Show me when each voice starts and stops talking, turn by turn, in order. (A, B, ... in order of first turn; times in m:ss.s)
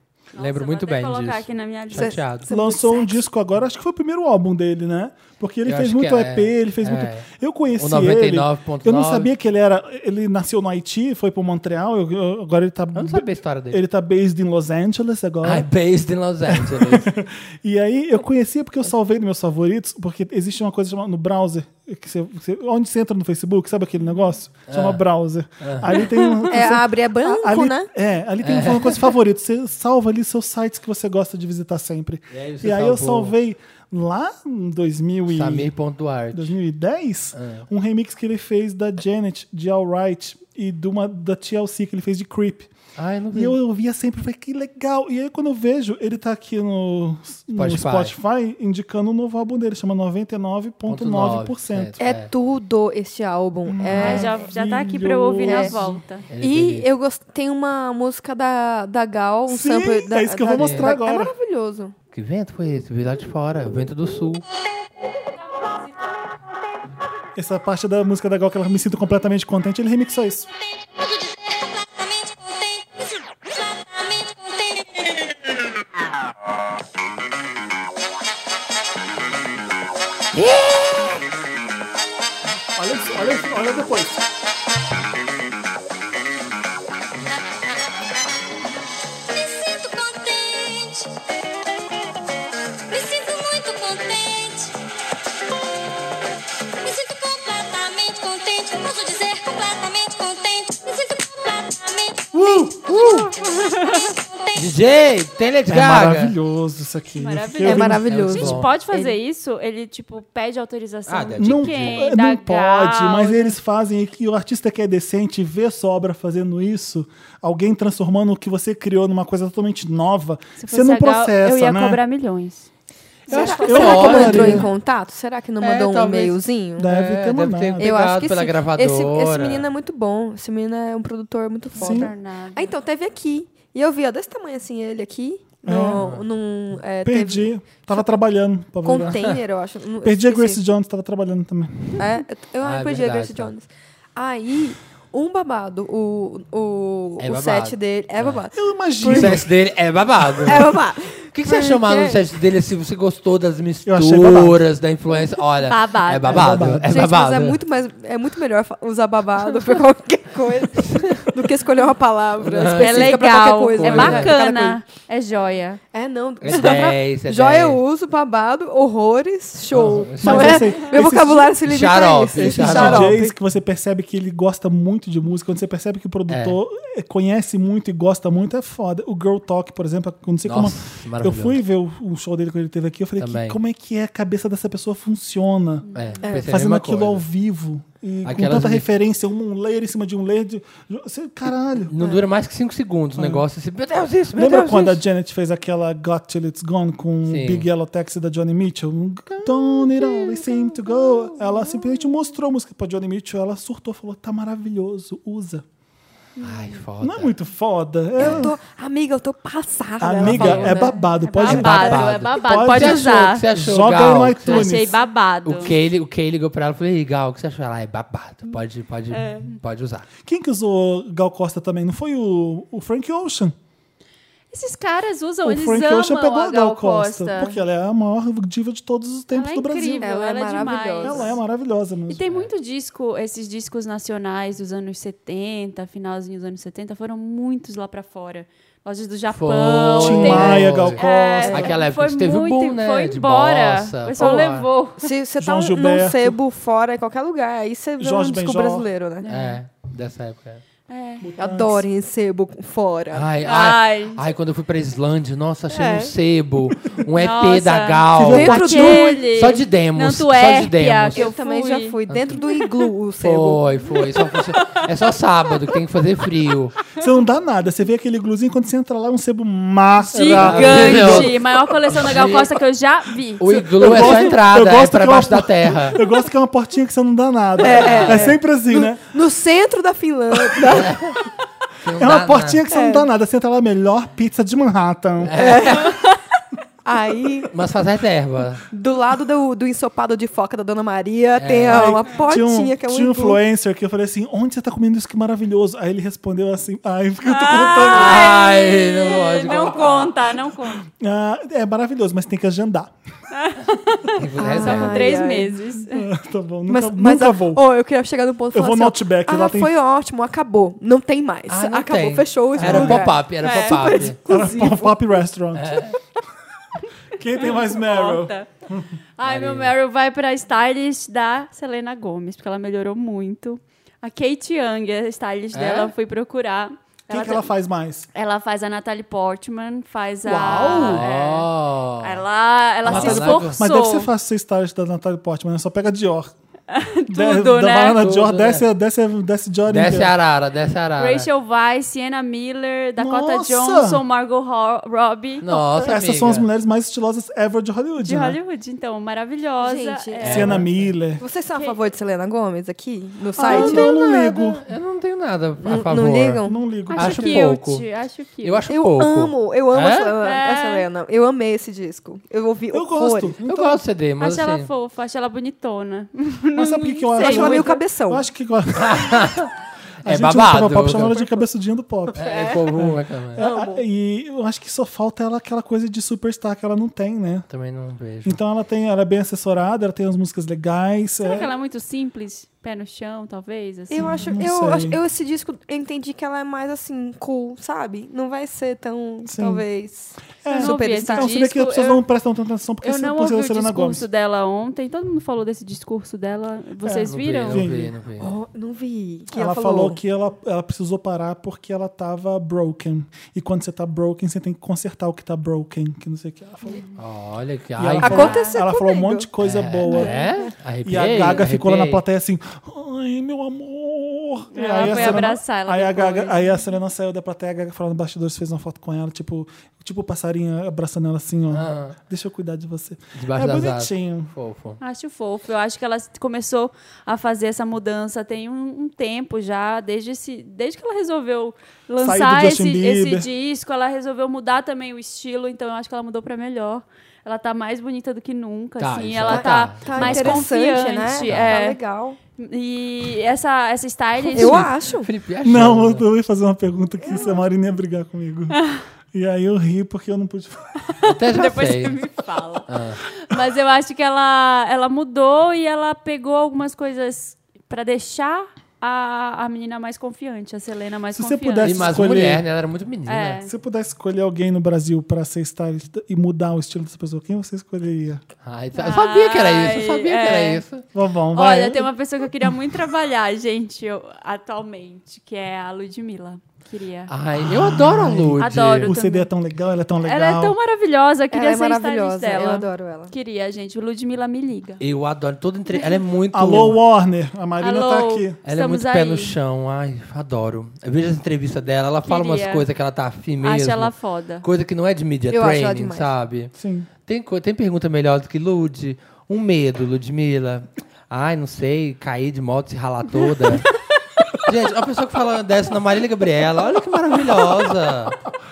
0:00.4-0:02.2 A
0:00.4-0:02.5 B
0:01.9-0:03.2 C
0:02.5-0:15.7 D
0:05.7-0:09.3 B
0:12.9-0:13.8 B
0:15.4-0:17.1 B
0:16.5-0:35.7 D
0:24.7-0:25.0 B
0:25.6-0:26.0 B
0:26.5-0:27.9 C
0:28.4-0:29.0 B
0:32.3-0:33.3 B
0:35.3-0:36.6 B
0:36.3-0:42.7 D
0:37.4-0:37.7 B
0:43.0-0:43.6 B
0:43.3-0:51.9 D
0:47.6-0:48.1 B
0:50.9-0:52.3 B
0:52.0-0:54.3 C
0:53.7-0:56.0 D
0:54.0-0:56.3 A
0:55.4-0:55.7 C
0:56.3-0:56.9 B
0:56.4-1:01.9 C
0:59.5-1:01.3 D
1:00.6-1:00.9 B
1:02.1-1:04.4 B
1:05.5-1:06.2 A
1:07.4-1:10.5 D
1:11.0-1:15.2 E
1:22.8-1:24.2 D
1:29.3-1:31.2 E
1:32.9-1:34.7 E
1:36.8-1:42.8 E
1:42.3-1:43.0 D
1:43.0-1:43.3 B
1:43.4-1:44.8 E
1:44.6-1:46.4 B
1:45.7-1:48.1 D
1:47.2-1:53.6 A
1:47.6-1:49.1 C
1:48.0-1:48.7 B
1:51.1-1:52.0 B
1:51.4-2:02.0 D
2:00.6-2:02.7 A
2:03.3-2:04.6 A
2:03.3-2:04.7 B
2:03.3-2:06.9 C
2:03.5-2:04.7 D
2:05.6-2:09.7 B
2:06.8-2:07.9 D
2:07.8-2:18.0 C
2:11.8-2:12.7 A
2:11.8-2:12.1 D
2:15.6-2:16.0 D
2:15.9-2:16.2 B
2:17.0-2:19.3 D
2:18.8-2:20.6 C
2:20.0-2:22.0 D
2:22.0-2:29.4 C
2:22.6-2:23.5 B
2:27.2-2:28.4 B
2:28.5-2:29.5 D
2:29.1-2:37.6 B
2:30.4-2:32.3 C
2:33.9-2:34.6 D
2:35.7-2:36.6 A
2:36.3-2:36.9 D
2:36.9-2:44.8 C
2:40.9-2:41.2 B
2:42.4-2:44.4 B
2:42.8-2:45.8 A
2:45.9-2:53.4 C
2:46.4-2:47.8 B
2:49.7-2:50.8 B
2:50.2-2:51.6 D
2:51.6-2:53.2 B
2:52.4-3:05.9 D
2:56.3-2:56.6 B
3:00.4-3:01.6 B
3:03.2-3:03.6 B
3:06.0-3:06.2 A
3:06.0-3:07.2 B
3:06.5-3:11.9 D
3:08.2-3:08.9 B
3:11.9-3:15.0 B
3:13.2-3:13.4 D
3:14.3-3:25.6 D
3:17.3-3:17.7 B
3:19.3-3:20.1 B
3:26.4-3:26.8 A
3:26.4-3:27.3 B
3:27.0-3:28.5 D
3:28.2-3:31.0 C
3:28.2-3:28.5 B
3:30.0-3:35.0 D
3:30.2-3:30.8 B
3:30.6-3:33.4 A
3:31.4-3:34.9 B
3:34.5-3:35.8 A
3:35.4-3:40.1 B
3:40.2-3:43.6 D
3:44.5-3:47.6 A
3:45.4-3:50.1 D
3:49.3-3:51.3 A
3:50.0-3:51.3 C
3:51.0-3:52.2 D
3:52.1-4:05.1 A
3:59.3-4:04.7 B
4:00.0-4:01.7 D
4:05.0-4:09.3 C
4:05.4-4:06.4 D
4:08.0-4:08.9 D
4:09.2-4:09.6 A
4:09.3-4:10.6 B
4:10.9-4:11.3 A
4:11.2-4:11.8 D
4:11.4-4:13.3 C
4:13.1-4:21.2 B
4:13.4-4:14.2 A
4:15.7-4:16.1 C
4:17.1-4:22.0 A
4:18.2-4:19.2 C
4:21.1-4:23.6 C
4:23.2-4:26.8 B
4:24.3-4:24.9 A
4:27.0-4:31.4 D
4:30.1-4:34.2 A
4:30.3-4:31.4 B
4:32.0-4:32.5 B
4:33.4-4:36.0 B
4:33.4-4:39.0 D
4:37.6-4:41.0 C
4:37.8-4:38.3 B
4:40.7-4:41.2 B
4:41.8-4:42.6 B
4:42.0-4:45.3 D
4:42.7-4:43.1 C
4:45.2-4:46.0 B
4:45.3-4:46.0 C
4:46.8-4:47.5 C
4:47.5-4:48.6 B
4:48.7-4:53.4 C
4:51.4-4:52.0 B
4:51.7-4:58.3 D
4:57.2-5:00.9 A
4:57.9-5:00.1 B
5:00.9-5:02.9 D
5:03.3-5:06.1 A
5:04.2-5:05.2 B
5:04.4-5:05.6 C
5:05.9-5:07.6 D
5:06.7-5:15.0 C
5:08.5-5:09.7 D
5:11.5-5:14.2 B
5:12.6-5:13.1 D
5:13.4-5:14.0 A
5:14.3-5:15.8 D
5:15.6-5:16.0 B
5:17.2-5:18.9 D
5:17.4-5:18.5 A
5:19.2-5:27.5 A
5:19.2-5:19.7 B
5:25.5-5:25.9 B
5:27.1-5:28.1 D
5:28.1-5:31.5 A
5:30.2-5:31.0 D
5:30.7-5:32.2 B
5:32.0-5:34.1 A
5:32.8-5:33.6 B
5:32.9-5:36.3 D
5:36.7-5:38.0 A
5:37.1-5:40.1 D
5:38.0-5:38.6 B
5:39.7-5:41.3 B
5:41.0-5:45.6 A
5:43.0-5:44.0 D
5:45.4-5:46.5 B
5:45.5-5:48.4 D
5:48.0-5:50.6 A
5:49.6-5:50.6 C
5:50.2-5:50.8 B
5:50.3-5:51.2 D
5:51.2-5:53.9 C
5:53.4-5:54.6 D
5:53.5-5:57.8 B
5:55.6-5:56.6 C
5:56.4-5:57.5 D
5:56.9-5:58.6 A
5:58.4-6:00.2 B
5:58.7-6:03.4 C
6:00.2-6:00.9 A
6:02.7-6:03.8 D
6:03.4-6:04.7 B
6:04.2-6:07.8 A
6:06.6-6:09.3 D
6:07.2-6:08.2 C
6:08.8-6:09.5 B
6:10.0-6:11.2 B
6:10.0-6:12.2 D
6:12.1-6:12.7 C
6:12.2-6:13.4 B
6:12.7-6:17.5 D
6:13.4-6:13.8 C
6:17.5-6:18.4 B
6:18.2-6:21.5 D
6:21.2-6:24.2 A
6:23.9-6:31.3 C
6:24.0-6:25.0 D
6:29.3-6:29.6 D
6:30.4-6:34.0 D
6:30.5-6:32.0 A
6:32.8-6:37.6 A
6:36.8-6:37.9 D
6:37.1-6:38.3 B
6:38.2-6:40.0 C
6:39.3-6:46.8 D
6:47.0-6:48.3 B
6:47.8-6:50.2 D
6:48.0-6:49.3 C
6:48.1-6:48.5 A
6:49.4-6:52.0 B
6:49.9-6:50.5 C
6:50.8-7:04.3 D
6:54.5-6:56.6 A
6:54.8-6:55.1 B
7:01.5-7:02.0 B
7:03.2-7:04.8 B
7:04.8-7:21.8 A
7:12.0-7:13.3 D
7:18.8-7:20.4 B
7:19.3-7:22.2 C
7:21.3-7:21.5 B
7:22.4-7:24.7 A
7:24.3-7:25.1 C
7:24.3-7:26.0 B
7:25.4-7:28.6 D
7:28.6-7:28.8 A
7:29.1-7:30.8 D
7:30.9-7:42.0 A
7:31.0-7:32.0 B
7:32.7-7:33.0 B
7:41.1-7:42.4 D
7:41.6-7:43.4 B
7:43.1-7:43.5 A
7:43.4-7:48.2 D
7:48.4-7:50.8 B
7:48.8-7:50.6 A
7:50.9-7:51.9 D
7:51.4-7:57.1 A
7:57.1-7:58.9 B
7:57.4-8:00.6 D
7:58.4-7:59.3 A
8:00.0-8:04.8 A
8:01.3-8:03.1 C
8:04.8-8:06.8 B
8:06.3-8:08.4 D
8:07.6-8:09.4 A
8:08.4-8:13.9 B
8:12.0-8:12.7 A
8:13.4-8:14.4 A
8:14.4-8:16.5 B
8:15.3-8:16.1 C
8:16.6-8:16.9 D
8:17.0-8:23.7 B
8:24.5-8:28.2 B